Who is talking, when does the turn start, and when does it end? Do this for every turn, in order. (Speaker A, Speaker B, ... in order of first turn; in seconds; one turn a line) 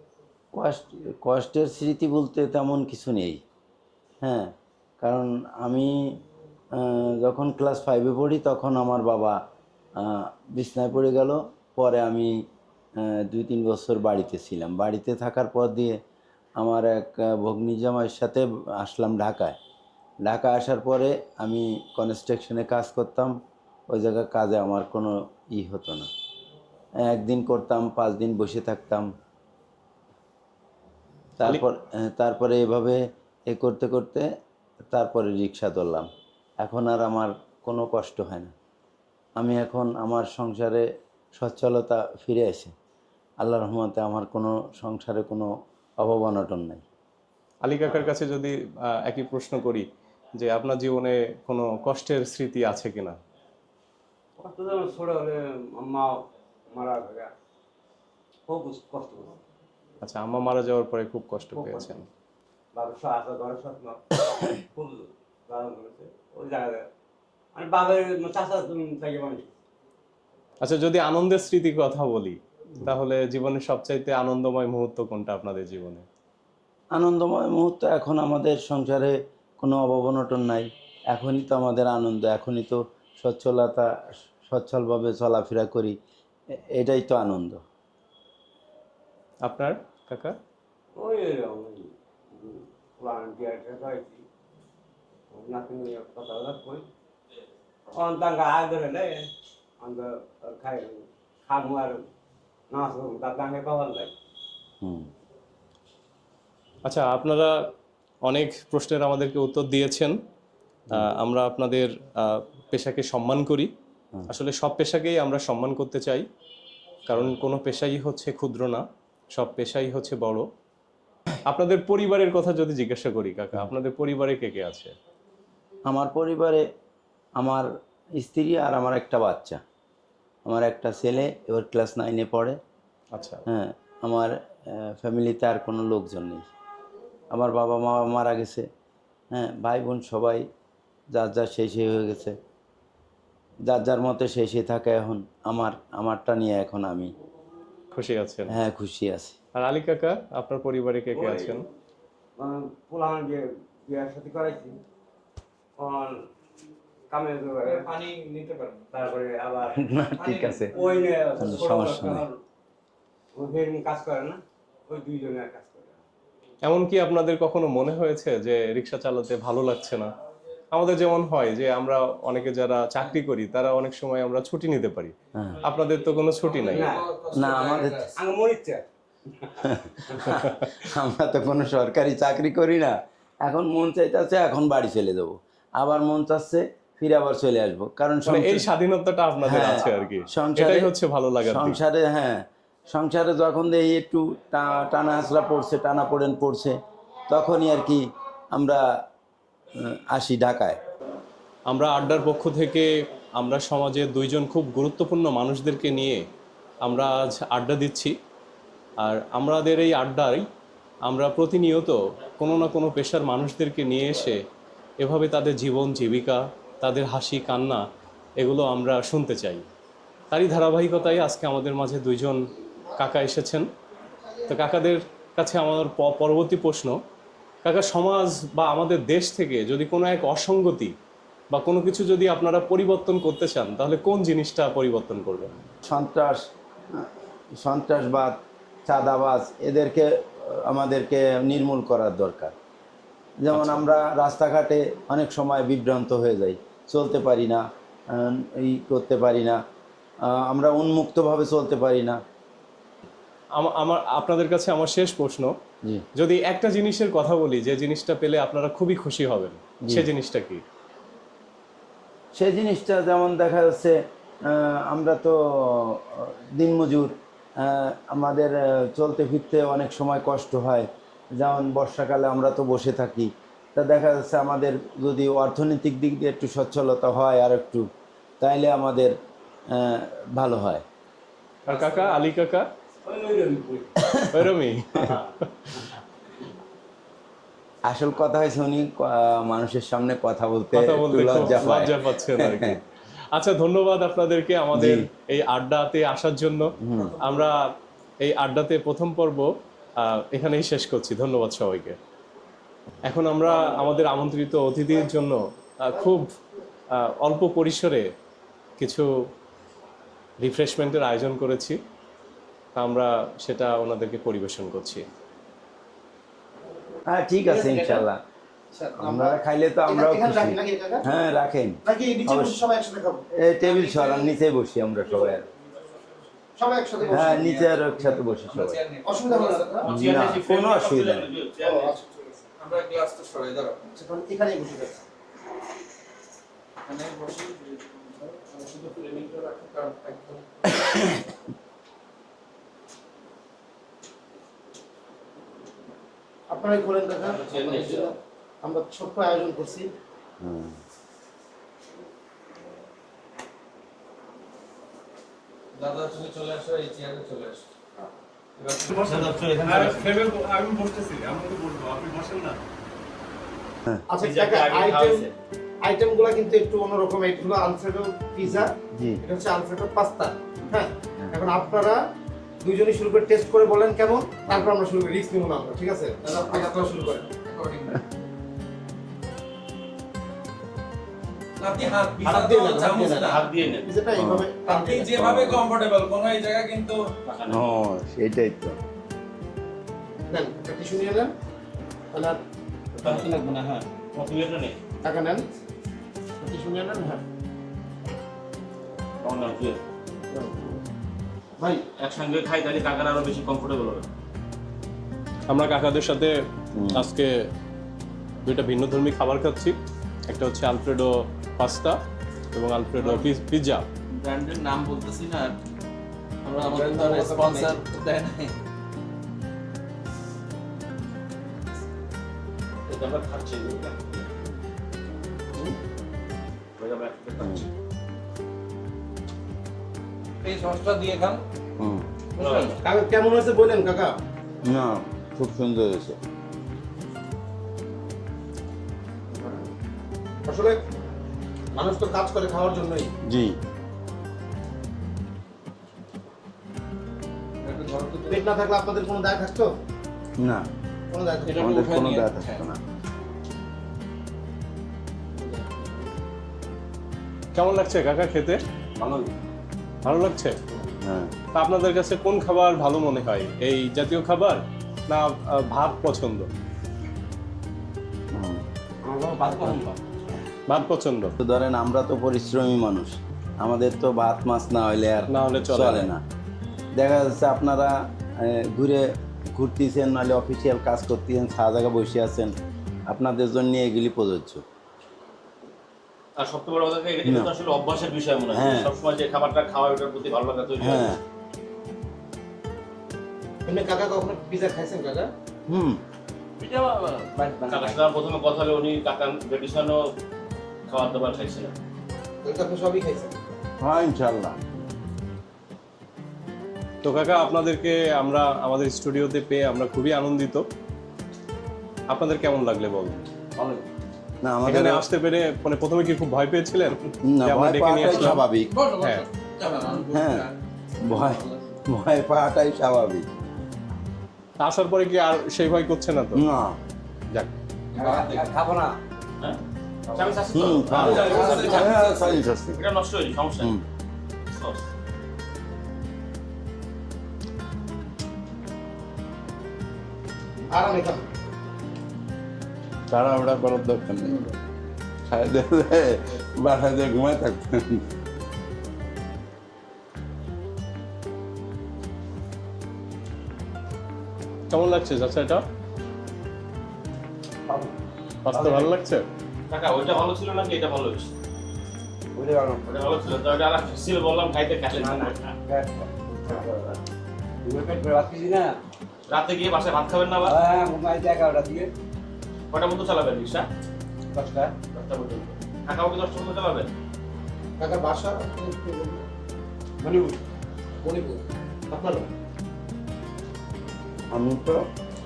Speaker A: 0.5-3.4
Speaker A: 4.2-6.0
Speaker A: 6.8-9.4
Speaker A: 10.0-12.3
Speaker A: 13.0-16.0
Speaker A: 16.6-19.6
Speaker A: 20.3-23.3
Speaker A: 23.9-26.1
Speaker A: 27.0-29.1
Speaker A: 31.4-34.3
Speaker A: 34.9-36.1
Speaker A: 36.6-38.5
Speaker A: 39.4-40.9
Speaker A: 41.4-42.7
Speaker A: 43.4-45.5
Speaker A: 46.0-46.8
Speaker B: 47.6-53.2
Speaker C: 54.4-57.3
Speaker C: 58.5-59.4
Speaker B: 60.0-62.1
Speaker C: 61.6-61.9
Speaker C: 62.7-66.9
Speaker C: 67.5-69.5
Speaker B: 70.6-76.1
Speaker A: 76.9-83.9
Speaker A: 84.5-86.0
Speaker A: 86.8-87.6
Speaker B: 89.4-90.3
Speaker C: 91.0-94.2
Speaker C: 95.3-96.9
Speaker C: 97.9-99.3
Speaker C: 99.8-102.1
Speaker C: 102.7-104.1
Speaker A: 104.8-105.1
Speaker B: 106.8-107.6
Speaker B: 108.2-110.2
Speaker B: 110.9-113.7
Speaker B: 114.3-116.3
Speaker B: 117.1-120.5
Speaker B: 121.5-124.9
Speaker A: 125.9-126.6
Speaker A: 127.4-127.7
Speaker A: 128.2-129.6
Speaker A: 130.5-132.6
Speaker B: 133.1-133.4
Speaker A: 133.5-136.5
Speaker A: 137.3-138.7
Speaker A: 139.3-140.4
Speaker A: 141.1-142.3
Speaker A: 143.7-147.1
Speaker B: 147.9-148.5
Speaker A: 148.5-149.3
Speaker B: 149.5-151.7
Speaker C: 152.4-154.8
Speaker C: 155.8-156.2
Speaker C: 157.1-158.0
Speaker D: 157.6-159.1
Speaker C: 158.9-162.4
Speaker A: 159.7-160.8
Speaker D: 160.2-162.1
Speaker A: 161.4-162.2
Speaker C: 163.3-165.9
Speaker B: 166.7-170.1
Speaker B: 170.7-176.9
Speaker D: 176.5-178.3
Speaker C: 176.8-177.1
Speaker A: 177.3-178.1
Speaker C: 178.1-180.2
Speaker A: 179.6-182.9
Speaker B: 180.2-180.9
Speaker A: 183.4-188.6
Speaker B: 188.2-191.8
Speaker A: 189.4-190.9
Speaker A: 191.4-196.8
Speaker A: 197.3-198.8
Speaker A: 199.9-200.8
Speaker B: 201.7-206.2
Speaker B: 206.8-208.2
Speaker B: 209.0-210.5
Speaker B: 211.1-214.4
Speaker B: 215.0-217.8
Speaker B: 218.4-219.7
Speaker B: 220.3-222.4
Speaker B: 222.9-223.7
Speaker B: 224.5-227.0
Speaker B: 227.6-230.9
Speaker B: 231.5-235.5
Speaker A: 235.8-236.4
Speaker A: 237.6-242.6
Speaker A: 243.4-249.6
Speaker B: 243.5-243.8
Speaker A: 250.3-252.2
Speaker B: 253.6-255.5
Speaker B: 256.2-260.6
Speaker A: 262.4-277.9
Speaker A: 278.4-279.2
Speaker A: 279.7-280.8
Speaker C: 281.7-282.2
Speaker B: 281.7-282.7
Speaker C: 283.0-283.9
Speaker A: 284.0-284.4
Speaker B: 284.3-285.7
Speaker A: 287.9-292.8
Speaker B: 290.7-297.7
Speaker A: 294.8-295.0
Speaker A: 296.8-297.2
Speaker B: 298.2-302.0
Speaker B: 303.1-306.3
Speaker B: 306.9-308.1
Speaker B: 308.8-309.1
Speaker B: 310.4-311.8
Speaker B: 312.7-315.1
Speaker A: 317.1-318.2
Speaker E: 317.5-318.1
Speaker E: 318.7-321.0
Speaker A: 319.0-322.6
Speaker E: 321.8-324.3
Speaker A: 323.4-325.4
Speaker E: 326.6-327.6
Speaker A: 327.1-328.8
Speaker D: 327.2-329.8
Speaker E: 329.0-329.9
Speaker F: 329.8-331.9
Speaker A: 329.8-331.3
Speaker E: 331.6-332.4
Speaker D: 332.6-333.9
Speaker E: 333.9-335.0
Speaker D: 336.9-341.1
Speaker A: 340.8-341.1
Speaker E: 346.5-349.9
Speaker F: 347.2-348.1
Speaker D: 347.7-348.1
Speaker A: 350.4-350.8
Speaker D: 355.7-357.7
Speaker D: 358.6-359.5
Speaker B: 358.9-362.6
Speaker F: 359.1-360.1
Speaker E: 364.1-365.3
Speaker F: 364.2-365.3
Speaker E: 365.8-372.0
Speaker A: 368.4-369.2
Speaker E: 372.6-377.2
Speaker D: 376.2-378.0
Speaker D: 381.6-383.4
Speaker E: 382.2-385.2
Speaker F: 383.2-383.9
Speaker A: 384.1-384.5
Speaker D: 384.6-387.1
Speaker A: 385.2-385.6
Speaker F: 387.2-387.6
Speaker A: 387.5-388.8
Speaker E: 390.3-391.3
Speaker E: 392.1-392.4
Speaker F: 393.0-394.8
Speaker E: 393.0-393.3
Speaker E: 395.0-395.4
Speaker E: 396.4-397.2
Speaker F: 399.2-399.8
Speaker E: 400.3-400.7
Speaker F: 402.0-404.1
Speaker B: 405.5-406.4
Speaker A: 406.8-407.1
Speaker B: 406.9-407.4
Speaker B: 408.4-409.8
Speaker B: 410.3-412.0
Speaker B: 412.5-413.9
Speaker D: 413.0-413.3
Speaker D: 414.2-415.6
Speaker D: 416.4-418.6
Speaker E: 416.6-417.8
Speaker F: 422.9-424.3
Speaker F: 426.8-427.7
Speaker A: 427.4-427.6
Speaker D: 430.4-431.4
Speaker A: 431.8-432.1
Speaker F: 432.4-432.8
Speaker D: 432.4-432.7
Speaker E: 432.8-434.1
Speaker A: 434.7-436.2
Speaker E: 440.4-440.8
Speaker E: 441.7-443.1
Speaker A: 443.2-443.6
Speaker D: 447.6-448.5
Speaker E: 448.3-449.7
Speaker A: 450.4-450.7
Speaker E: 451.1-451.6
Speaker D: 451.4-452.6
Speaker A: 451.5-452.8
Speaker D: 455.4-455.9
Speaker B: 457.6-458.6
Speaker C: 459.0-459.3
Speaker B: 460.0-460.6
Speaker A: 461.0-461.3
Speaker B: 461.5-466.5
Speaker A: 468.3-468.6
Speaker C: 469.1-469.9
Speaker B: 470.7-471.4
Speaker A: 471.4-476.2
Speaker B: 475.3-476.1
Speaker A: 477.0-482.5
Speaker A: 483.1-484.6
Speaker F: 486.4-491.1
Speaker A: 487.2-487.5
Speaker A: 488.5-488.9
Speaker A: 490.8-491.2
Speaker E: 493.7-495.3
Speaker A: 495.7-496.0
Speaker D: 496.6-497.9
Speaker F: 497.7-500.0
Speaker F: 500.9-501.7
Speaker E: 502.4-503.5
Speaker A: 503.8-504.6
Speaker B: 507.0-510.7
Speaker B: 512.1-513.3
Speaker C: 513.6-513.8
Speaker A: 514.4-515.0
Speaker B: 514.6-518.4
Speaker A: 517.3-518.8
Speaker D: 518.0-521.8
Speaker B: 519.0-519.2
Speaker A: 520.1-520.5
Speaker A: 521.0-523.2
Speaker B: 524.6-526.4
Speaker A: 526.4-526.8
Speaker D: 527.9-528.6
Speaker C: 528.0-529.0
Speaker D: 530.1-532.4
Speaker F: 530.1-532.1
Speaker A: 530.5-532.8
Speaker E: 531.0-532.0
Speaker F: 532.7-533.7
Speaker F: 534.4-534.8
Speaker E: 540.7-541.2
Speaker A: 543.1-544.5
Speaker A: 545.3-548.0
Speaker B: 554.7-555.6
Speaker B: 558.4-559.2
Speaker C: 558.5-558.9
Speaker F: 559.7-561.3
Speaker C: 562.4-562.9
Speaker F: 562.9-565.5
Speaker C: 564.9-567.0
Speaker C: 567.6-568.7
Speaker F: 569.3-570.6
Speaker C: 570.4-571.9
Speaker F: 572.7-573.7
Speaker C: 574.3-574.8
Speaker F: 574.9-576.9
Speaker E: 577.8-579.2
Speaker C: 580.0-580.4
Speaker E: 581.0-582.2
Speaker A: 584.3-584.8